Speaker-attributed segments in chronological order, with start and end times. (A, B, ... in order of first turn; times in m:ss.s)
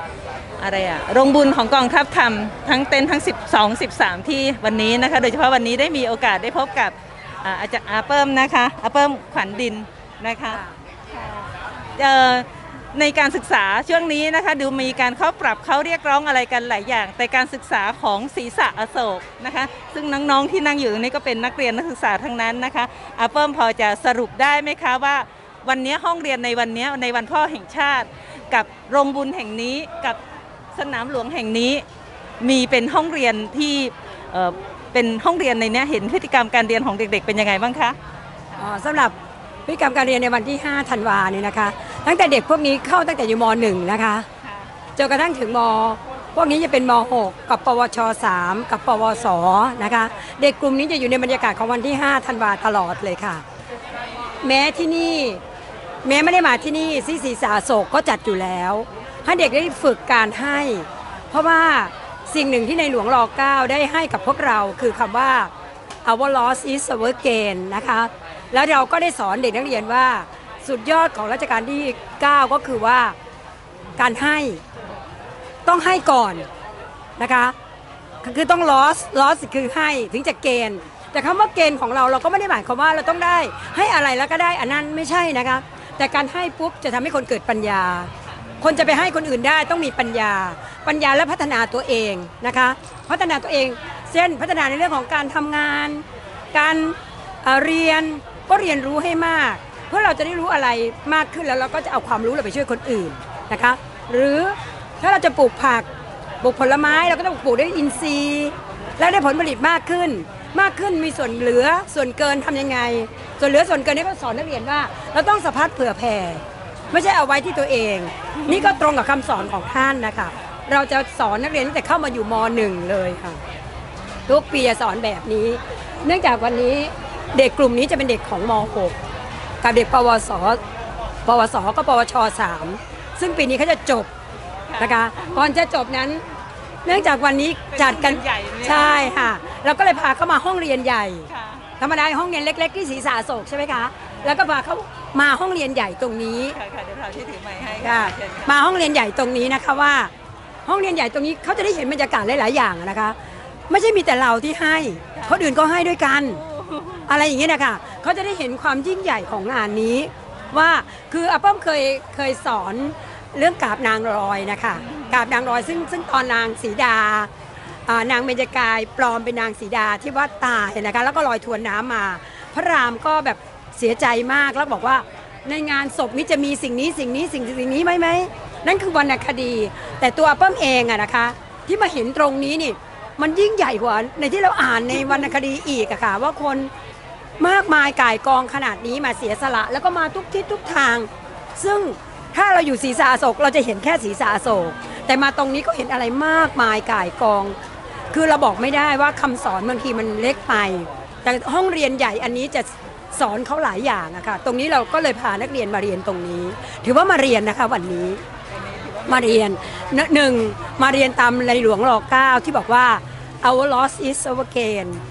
0:00.6-0:10.6 A
0:12.0-0:30.2 A
0:30.7-0:31.8 A
0:32.4-0:38.0 A
0:38.6-0:39.1 B
0:39.7-0:44.2 B
0:45.0-0:53.4 B
0:54.4-0:55.4 B
0:56.0-1:05.5 B
1:06.0-1:13.2 B
1:14.0-1:14.6 B
1:15.6-1:16.5 B
1:17.2-1:17.5 B
1:18.2-1:28.1 B
1:28.6-1:45.9 B
1:46.4-2:03.4 B
1:58.4-1:58.7 A
2:04.3-2:08.9 B
2:09.6-2:10.6 B
2:11.2-2:14.1 B
2:14.7-2:15.5 A
2:14.8-2:16.2 B
2:16.8-2:21.3 B
2:17.7-2:19.3 A
2:21.3-2:21.6 A
2:21.8-2:26.6 B
2:26.5-2:28.6 A
2:27.8-2:30.1 B
2:30.6-2:33.2 B
2:33.7-2:36.4 B
2:35.1-2:35.4 A
2:36.4-2:37.1 A
2:37.1-2:47.3 B
2:44.7-2:45.2 A
2:47.9-3:06.7 B
3:07.4-3:17.6 B
3:18.1-3:28.2 B
3:28.7-3:29.4 A
3:29.1-3:35.0 B